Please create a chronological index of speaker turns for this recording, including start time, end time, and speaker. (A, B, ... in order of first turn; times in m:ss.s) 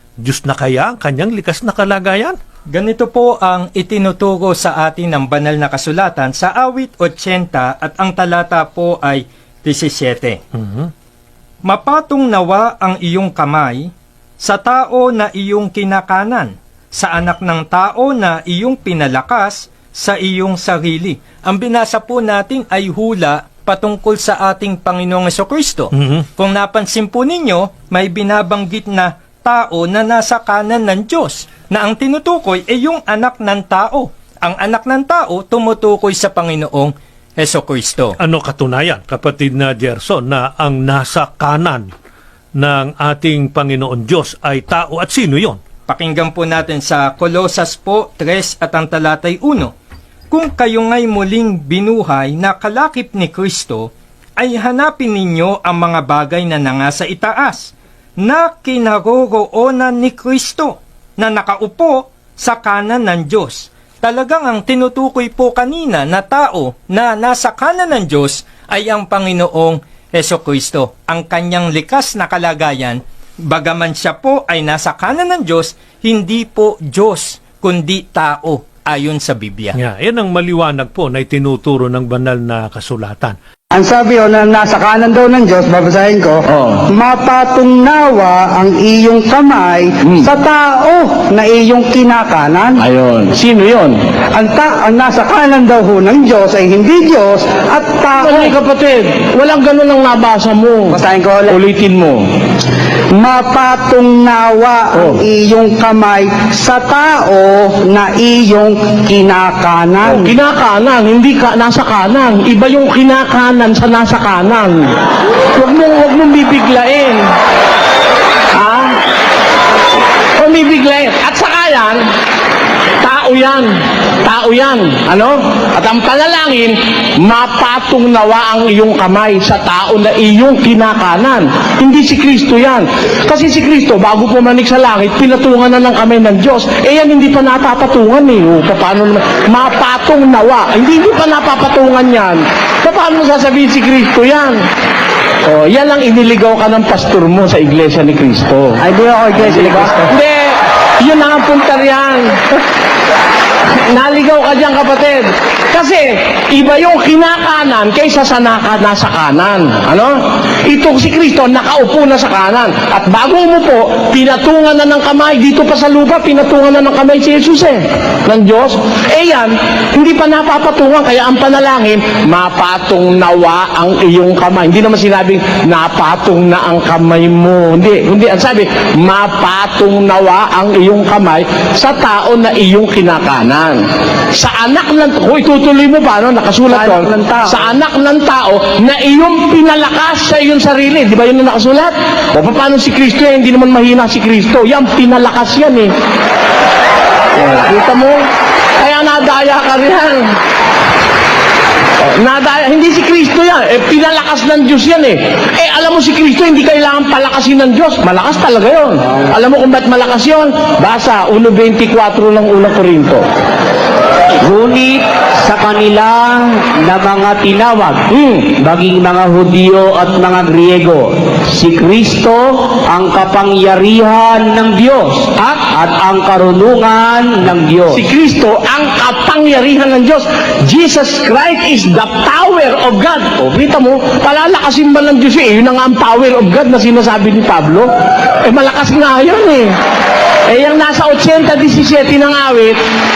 0:00.2-0:02.4 A
0:02.7-0:10.4 B
0:10.6-0:10.9 A
0:11.6-0:38.1 B
0:25.9-0:26.2 A
0:38.2-0:41.9 A
0:42.6-0:45.6 A
0:45.9-0:49.7 B
0:50.3-1:19.8 B
1:19.7-1:23.4 A
1:23.7-1:32.8 C
1:26.5-1:26.8 D
1:32.8-1:34.0 D
1:34.3-1:38.6 C
1:38.2-1:42.2 D
1:40.9-1:41.6 C
1:43.2-1:50.4 C
1:44.9-1:45.2 D
1:50.0-1:54.8 D
1:55.5-1:57.2 D
1:58.5-1:58.9 D
2:00.4-2:02.0 D
2:03.0-2:03.7 D
2:04.2-2:24.6 D
2:25.4-2:28.8 D
2:28.8-2:30.1 C
2:29.4-2:32.3 D
2:33.9-2:40.1 D
2:40.6-3:03.8 D
3:04.4-3:15.9 D
3:06.7-3:07.7 C
3:17.4-3:18.2 D
3:18.8-3:20.2 D
3:22.0-3:33.2 D
3:34.4-3:48.0 E
3:38.1-3:38.4 D
3:47.9-3:57.9 D
3:58.4-3:59.7 D
4:00.5-4:02.8 D